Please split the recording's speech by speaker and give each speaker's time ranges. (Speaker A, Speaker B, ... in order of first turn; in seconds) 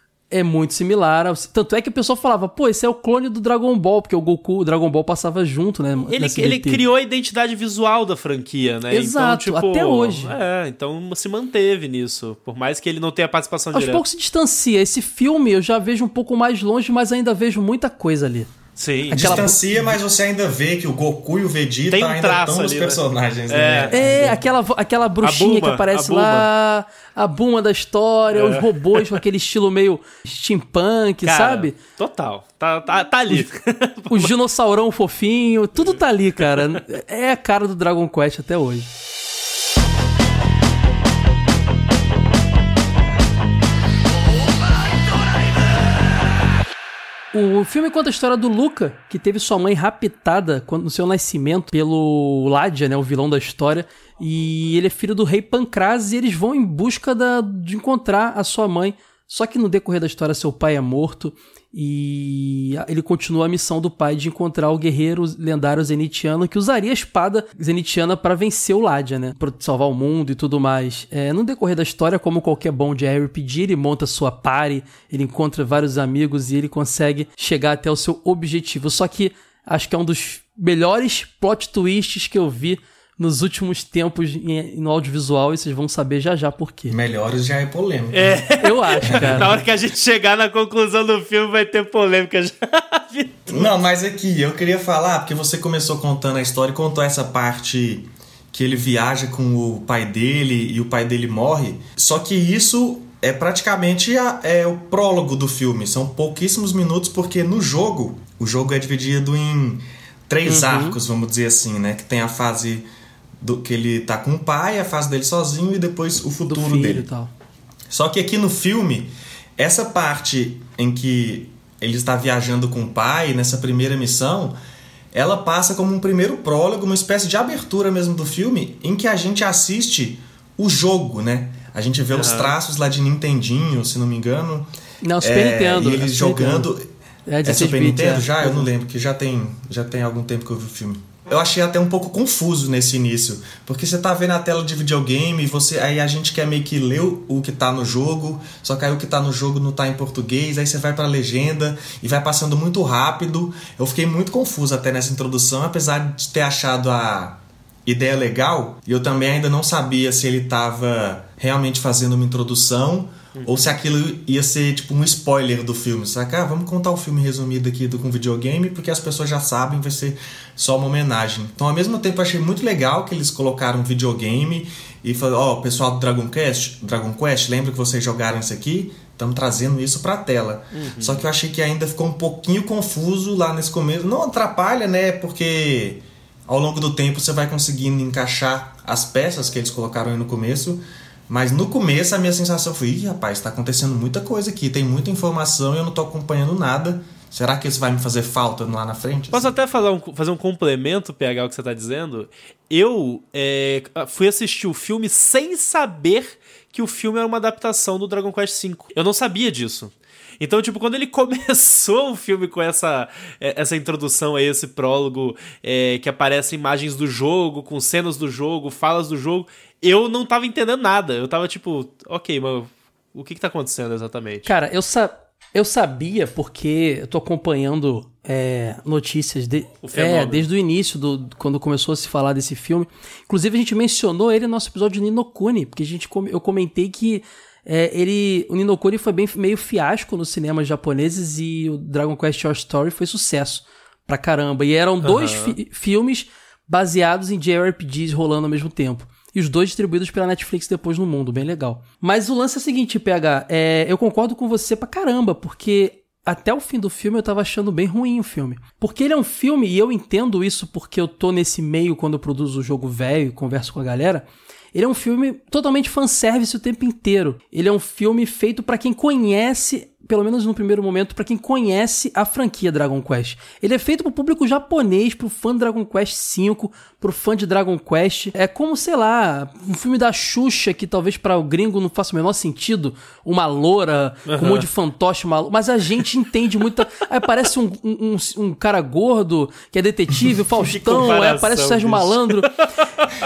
Speaker A: 0.3-6.8, 8.9-10.3, 13.7-18.5, 19.1-20.0, 23.9-31.8, 34.1-38.9, 47.3-87.0, 88.6-89.6, 110.5-111.0, 116.5-117.3, 135.0-136.7, 137.3-138.7, 224.4-292.5
Speaker B: 6.1-14.0, 18.8-19.5, 21.9-24.1, 25.2-26.5, 28.3-29.2, 31.2-34.3, 35.8-36.8, 88.1-93.7, 132.1-132.5, 163.3-163.8, 180.7-181.2, 199.3-224.5, 229.8-230.5, 245.0-245.6, 284.3-284.6, 290.6-292.5
Speaker C: 19.1-24.4, 86.9-88.4, 89.1-89.5, 93.5-112.8, 113.4-117.1, 117.9-124.5, 125.1-134.7, 135.2-136.8, 137.4-199.5